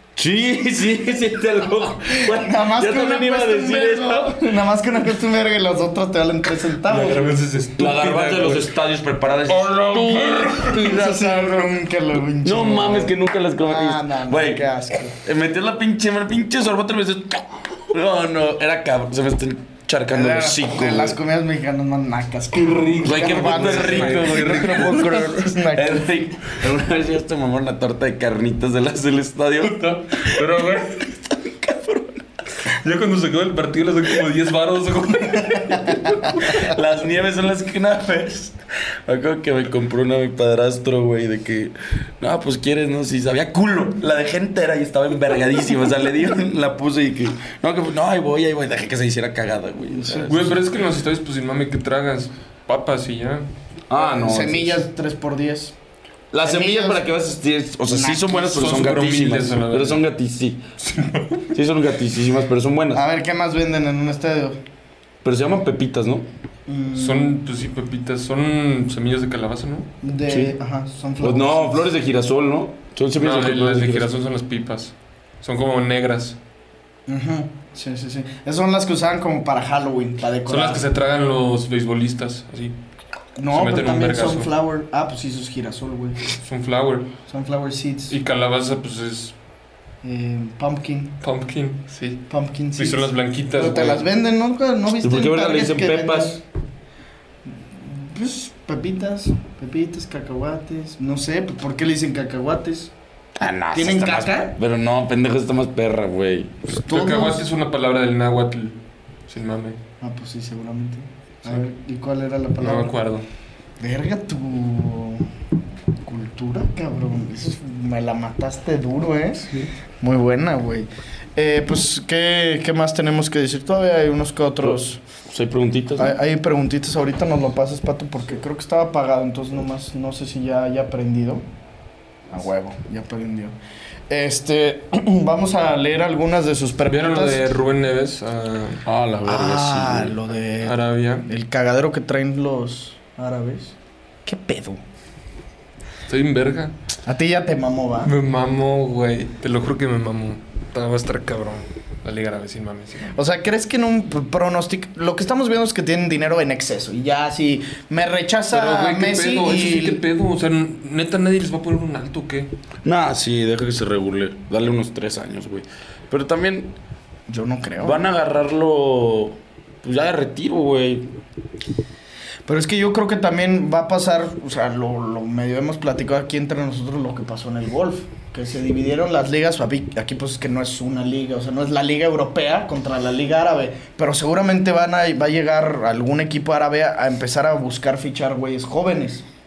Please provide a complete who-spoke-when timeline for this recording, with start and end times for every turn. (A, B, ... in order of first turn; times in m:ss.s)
0:00.2-0:04.4 A
0:02.1-0:07.3 B
0:06.8-0:08.7 C
0:07.8-0:11.7 A
0:09.5-0:11.1 C
0:10.0-0:15.2 B
0:12.4-0:21.2 A
0:20.1-0:26.1 B
0:22.6-0:25.2 C
0:23.0-0:32.2 A
0:29.6-0:31.1 C
0:32.7-0:36.6 C
0:36.4-0:50.6 A
0:50.1-0:50.4 B
0:50.2-0:53.5 C
0:53.9-0:54.8 A
0:54.0-0:55.8 B
0:56.3-1:00.6 A
0:56.4-0:57.0 B
0:57.9-0:58.9 B
0:58.5-1:00.0 C
1:00.8-1:01.5 C
1:01.5-1:03.0 A
1:02.9-1:04.6 B
1:05.2-1:06.3 A
1:06.7-1:07.3 B
1:07.0-1:09.9 C
1:10.0-1:11.9 B
1:11.2-1:14.1 A
1:13.2-1:16.4 C
1:17.1-1:20.9 B
1:20.5-1:22.8 C
1:23.4-1:26.2 B
1:23.5-1:24.5 C
1:26.4-1:27.1 C
1:27.3-1:28.2 B
1:28.1-1:29.4 C
1:30.0-1:31.1 B
1:31.2-1:32.2 C
1:32.3-1:36.4 B
1:32.8-1:34.1 C
1:35.0-1:36.4 A
1:37.8-1:42.9 B
1:43.4-1:46.6 A
1:43.7-1:44.6 B
1:46.7-1:49.8 C
1:46.8-1:47.5 B
1:50.0-1:53.0 B
1:52.6-1:53.3 C
1:53.8-1:55.3 B
1:56.0-2:05.0 B
1:59.4-1:59.7 C
2:04.6-2:06.2 A
2:06.0-2:11.4 B
2:12.3-2:13.6 B
2:14.1-2:17.4 B
2:16.9-2:18.8 C
2:18.9-2:20.2 A
2:19.2-2:24.8 B
2:20.6-2:21.3 C
2:26.1-2:26.7 C
2:27.0-2:28.1 B
2:28.0-2:33.2 C
2:33.1-2:40.0 B
2:38.5-2:42.5 C
2:42.8-2:46.7 A
2:47.3-2:48.1 B
2:47.8-2:51.1 A
2:52.5-3:09.2 B